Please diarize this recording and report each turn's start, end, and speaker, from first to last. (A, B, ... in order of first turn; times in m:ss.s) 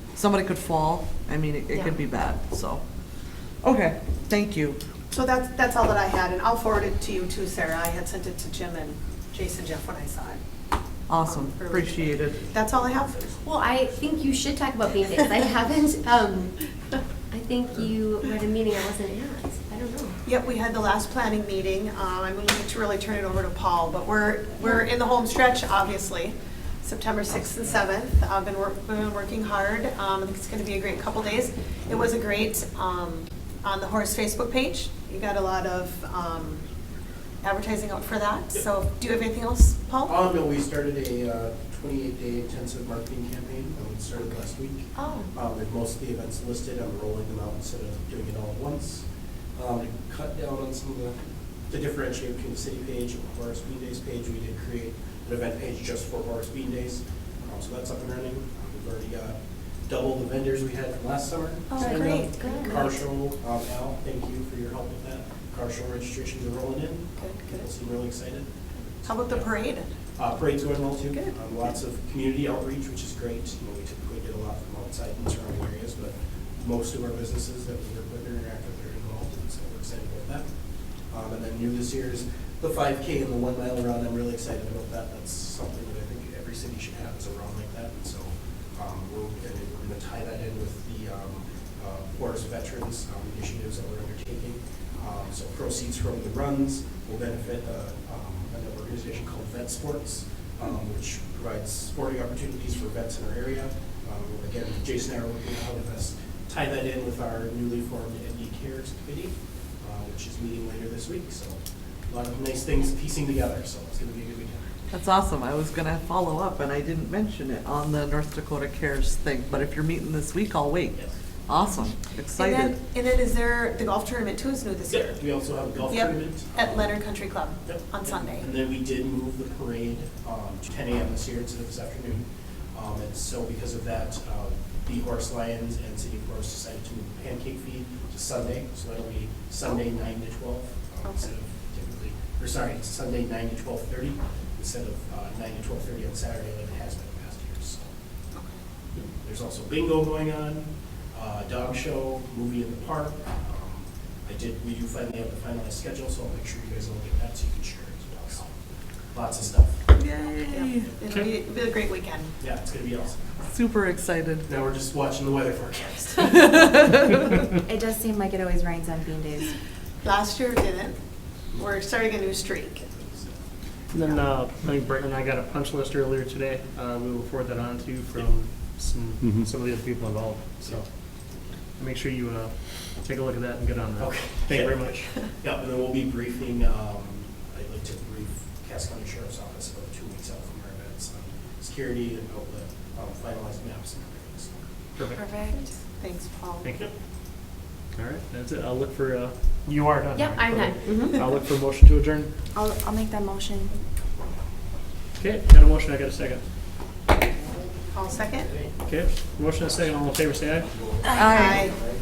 0:00.2-0:02.8 A
0:03.6-0:04.8 A
0:05.1-0:10.4 B
0:11.1-0:12.4 A
0:11.2-0:13.3 B
0:13.4-0:16.6 C
0:13.7-0:14.4 D
0:17.3-0:20.2 C
0:20.2-0:36.6 B
0:37.4-0:40.2 B
0:40.0-1:09.5 D
0:45.0-0:45.3 C
1:01.7-1:02.7 B
1:01.8-1:03.0 C
1:07.2-1:07.7 B
1:09.0-1:09.9 B
1:10.2-1:20.5 D
1:21.1-1:54.7 D
1:54.9-2:02.8 A
2:02.3-2:05.2 B
2:04.9-2:07.0 D
2:05.9-2:08.5 B
2:07.6-2:27.9 D
2:29.2-2:38.5 D
2:39.1-2:39.9 D
2:39.9-2:40.9 A
2:40.2-2:42.3 B
2:42.4-2:43.2 D
2:43.5-2:44.5 A
2:44.4-2:46.8 D
2:46.5-2:47.3 A
2:47.7-2:49.4 E
2:50.0-2:51.0 B
2:51.5-2:52.8 B
2:52.9-2:53.4 D
2:53.9-3:00.9 F
2:59.2-2:59.4 D
3:01.8-3:05.3 F
3:04.0-3:14.6 D
3:15.0-3:15.2 F
3:15.5-3:16.7 B
3:16.6-3:16.9 F
3:17.9-3:22.3 F
3:20.1-3:21.2 C
3:22.6-3:23.7 E
3:25.2-3:26.4 F
3:27.9-3:28.5 B
3:28.8-3:31.2 F
3:31.2-3:31.7 A
3:31.2-3:31.8 B